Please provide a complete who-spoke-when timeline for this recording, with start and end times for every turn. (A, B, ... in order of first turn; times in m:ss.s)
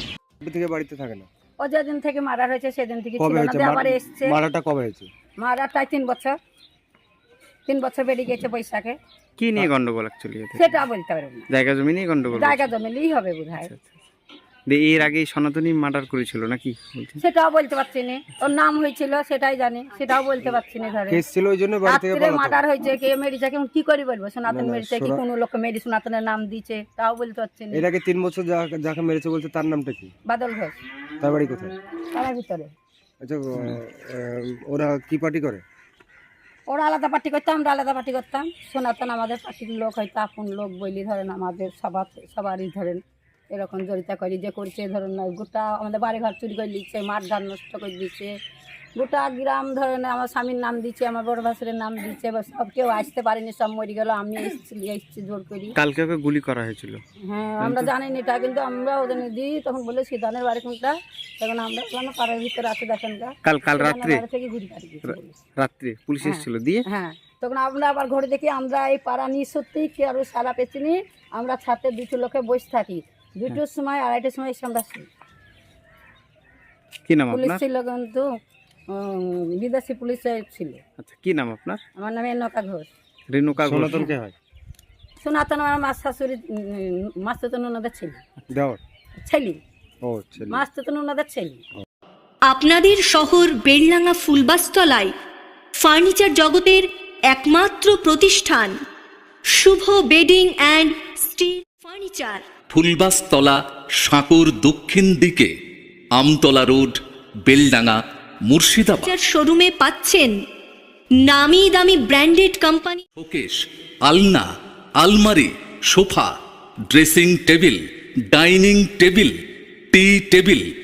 0:00.4-0:01.3 A
0:01.6-0:04.4 B
0:03.2-0:05.1 A
0:05.4-0:06.4 B
0:07.6-0:09.0 B
0:09.4-0:10.7 C
0:10.6-0:11.5 B
0:11.5-0:12.7 C
0:12.3-0:13.7 B
0:14.7-0:17.2 C
0:17.2-0:21.2 B
0:21.1-0:22.6 A
0:21.9-0:27.8 B
0:24.5-0:25.2 A
0:27.7-0:30.1 A
0:30.3-0:30.8 B
0:31.2-0:31.7 A
0:32.1-0:32.7 B
0:33.2-0:35.6 A
0:36.7-0:48.4 B
0:49.0-0:55.7 B
0:55.7-0:57.0 C
0:57.2-1:05.4 B
0:57.6-0:57.9 C
1:03.4-1:04.2 C
1:05.0-1:06.8 C
1:06.2-1:15.1 B
1:17.0-1:17.6 C
1:17.3-1:18.3 B
1:18.9-1:20.8 B
1:21.0-1:21.8 C
1:22.0-1:22.9 B
1:23.3-1:24.1 C
1:23.6-1:24.4 A
1:25.2-1:28.2 B
1:28.5-1:28.8 A
1:29.2-1:29.6 B
1:30.0-1:30.6 A
1:30.5-1:31.6 B
1:32.5-1:35.1 D
1:35.8-1:38.7 D
1:39.5-1:42.5 D
1:42.7-1:45.5 E
1:46.1-1:49.1 E
1:49.0-1:50.4 D
1:51.2-1:53.0 D
1:53.2-1:54.5 E
1:55.0-1:56.4 E
1:56.9-1:59.3 E
1:59.9-2:00.6 E